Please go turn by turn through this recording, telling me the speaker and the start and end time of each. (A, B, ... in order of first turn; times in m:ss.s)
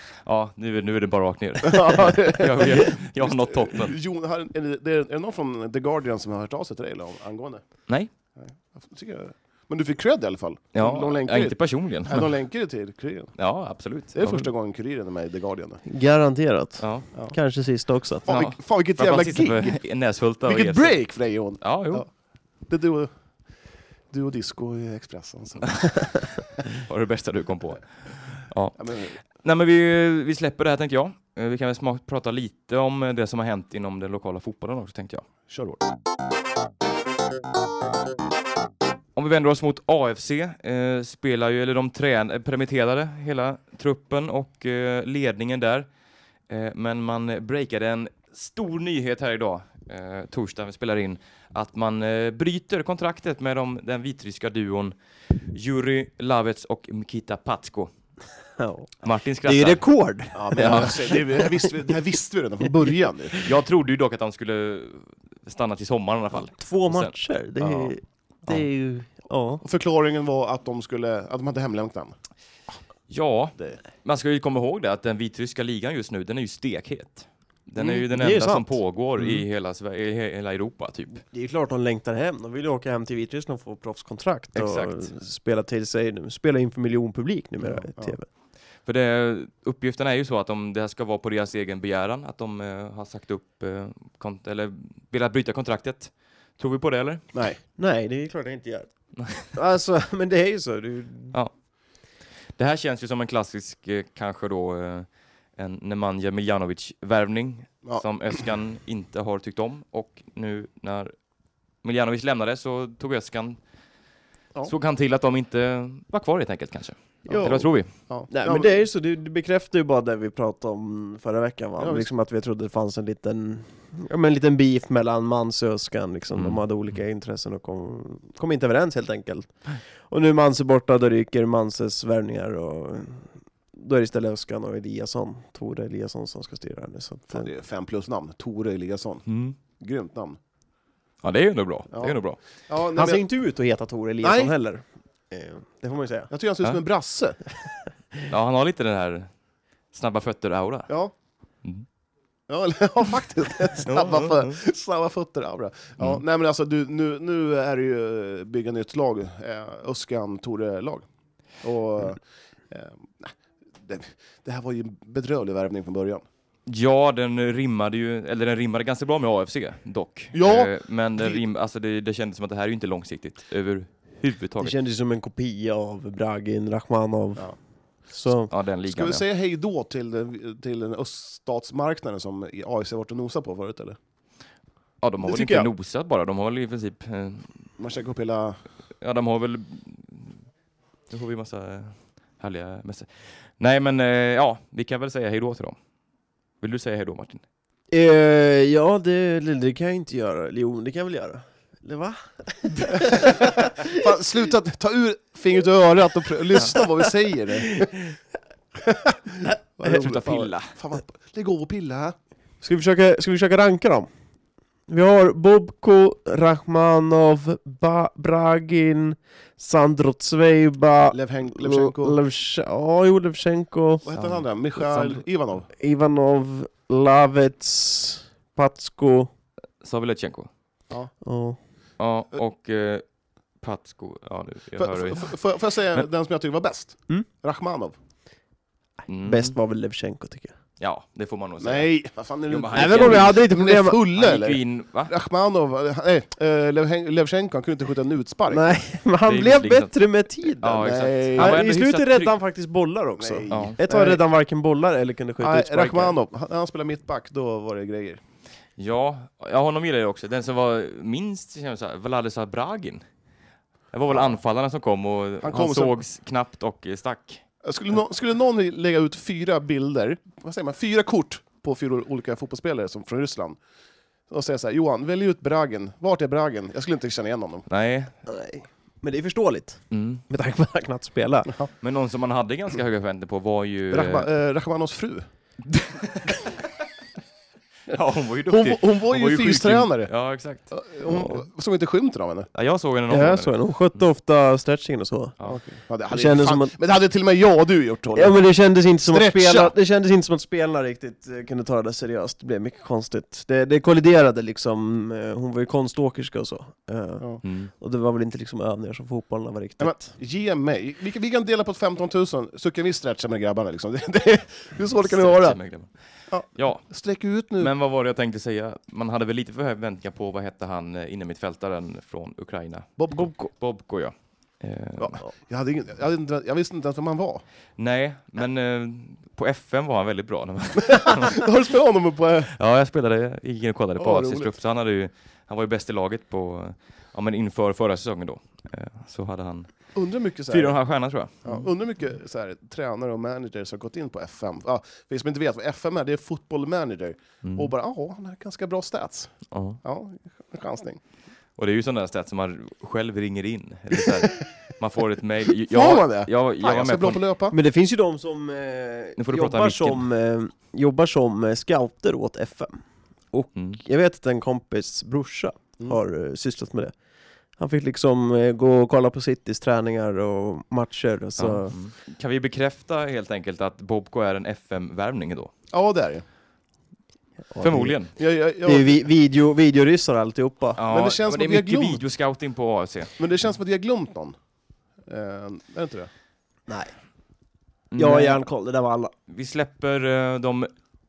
0:00.2-0:04.0 A
0:01.6-0:07.7 B
0:08.4-0:13.3 B
0:10.7-0:12.3 A
0:13.4-0:14.5 A
0:14.2-0:15.8 B
0:15.9-0:18.3 C
0:16.8-0:17.1 A
0:18.3-0:19.8 B
0:18.3-0:21.0 A
0:20.4-0:22.1 B
0:21.6-0:22.0 A
0:22.7-0:23.1 B
0:24.1-0:25.8 B
0:26.6-0:28.9 A
0:28.8-0:29.2 B
0:29.4-0:35.3 A
0:35.5-0:35.8 B
0:39.2-0:45.9 A
0:46.5-0:57.9 A
0:58.6-0:58.9 C
0:59.0-0:59.8 A
0:59.4-1:01.7 C
1:00.3-1:03.4 B
1:00.6-1:01.0 A
1:02.7-1:03.5 C
1:03.4-1:07.9 A
1:06.5-1:09.6 C
1:09.6-1:12.2 B
1:13.1-1:21.2 A
1:17.8-1:19.4 C
1:21.3-1:28.3 C
1:24.6-1:25.1 A
1:28.9-1:37.2 A
1:37.8-1:38.9 C
1:39.2-1:39.5 A
1:39.4-1:41.4 C
1:42.6-1:51.1 A
1:51.8-1:53.6 A
1:54.6-1:57.9 A
1:57.3-1:57.7 C
1:57.3-1:58.7 B
1:58.3-2:17.5 C
2:01.8-2:02.1 B
2:17.3-2:19.2 B
2:19.3-2:19.6 A
2:19.8-2:20.4 B
2:21.2-2:22.4 A
2:21.9-2:23.2 B
2:23.0-2:26.3 C
2:24.2-2:24.5 B
2:26.3-2:27.4 B
2:28.3-2:29.3 A
2:29.9-2:30.9 A
2:30.9-2:31.1 B
2:32.5-2:41.1 B
2:33.9-2:34.5 A
2:41.6-2:46.2 B
2:46.7-2:54.8 A
2:50.3-2:51.4 B
2:54.6-2:57.5 C
2:58.1-2:58.5 C
2:58.5-2:59.2 A
2:58.9-3:04.0 B
3:05.0-3:07.6 A
3:05.3-3:05.7 C
3:07.8-3:08.6 B
3:09.0-3:10.4 A
3:11.1-3:15.8 A
3:16.6-3:17.4 A
3:17.9-3:24.0 C
3:23.0-3:27.9 B
3:29.8-3:32.2 B
3:29.8-3:30.7 A
3:32.6-3:34.1 C
3:34.9-3:44.1 C
3:41.1-3:42.2 B
3:44.0-3:45.7 B
3:45.7-3:49.3 C
3:49.8-3:50.5 A
3:51.2-3:51.6 C
3:52.0-3:53.0 A
3:53.6-3:55.4 A
3:54.8-3:58.0 B
3:59.1-3:59.5 A
3:59.2-4:00.5 C
4:00.8-4:01.9 A
4:01.6-4:08.6 B
4:02.5-4:03.4 A
4:02.7-4:04.0 C
4:04.1-4:05.1 A
4:08.5-4:16.2 C
4:09.2-4:12.4 A
4:10.8-4:11.6 B
4:13.2-4:14.2 B
4:13.5-4:13.8 A
4:15.4-4:18.2 B
4:18.8-4:23.0 A
4:23.9-4:27.4 A
4:25.4-4:26.0 B
4:27.6-4:33.6 B
4:34.3-4:37.7 B
4:37.7-4:38.1 A
4:38.3-4:41.5 C
4:39.9-4:40.2 A
4:41.8-4:44.3 A
4:43.9-4:45.3 B
4:45.7-4:46.4 A
4:47.9-4:51.4 A
4:48.5-4:50.1 B
4:50.7-4:52.5 B
4:52.5-4:53.6 A
4:53.1-4:55.3 C
4:55.4-4:58.4 B
4:56.1-4:56.7 C
4:58.2-5:10.1 C
4:59.1-4:59.7 B
5:07.4-5:07.7 A
5:09.8-5:15.6 B
5:15.0-5:16.9 A
5:16.3-5:17.7 B
5:17.6-5:25.2 A
5:23.0-5:23.3 B
5:25.0-5:27.4 B
5:27.8-5:31.5 A
5:30.9-5:32.5 B
5:32.5-5:39.7 A
5:34.0-5:34.5 B
5:40.0-5:40.8 B
5:40.5-5:41.6 A
5:41.4-5:51.0 B
5:47.4-5:47.7 A
5:49.5-5:49.8 A
5:51.6-5:57.2 A
5:55.7-5:57.6 B
5:57.5-6:07.0 C
5:59.2-6:00.0 A
6:07.6-6:11.8 C
6:11.4-6:15.5 A
6:15.7-6:16.2 B
6:17.5-6:18.0 C
6:17.6-6:18.1 A
6:18.2-6:19.0 B
6:18.6-6:20.8 C
6:20.8-6:23.1 A
6:20.9-6:22.0 B
6:23.2-6:24.4 B
6:25.1-6:26.1 B
6:26.7-6:26.9 C
6:27.9-6:28.4 A
6:28.0-6:29.1 C
6:29.3-6:30.7 A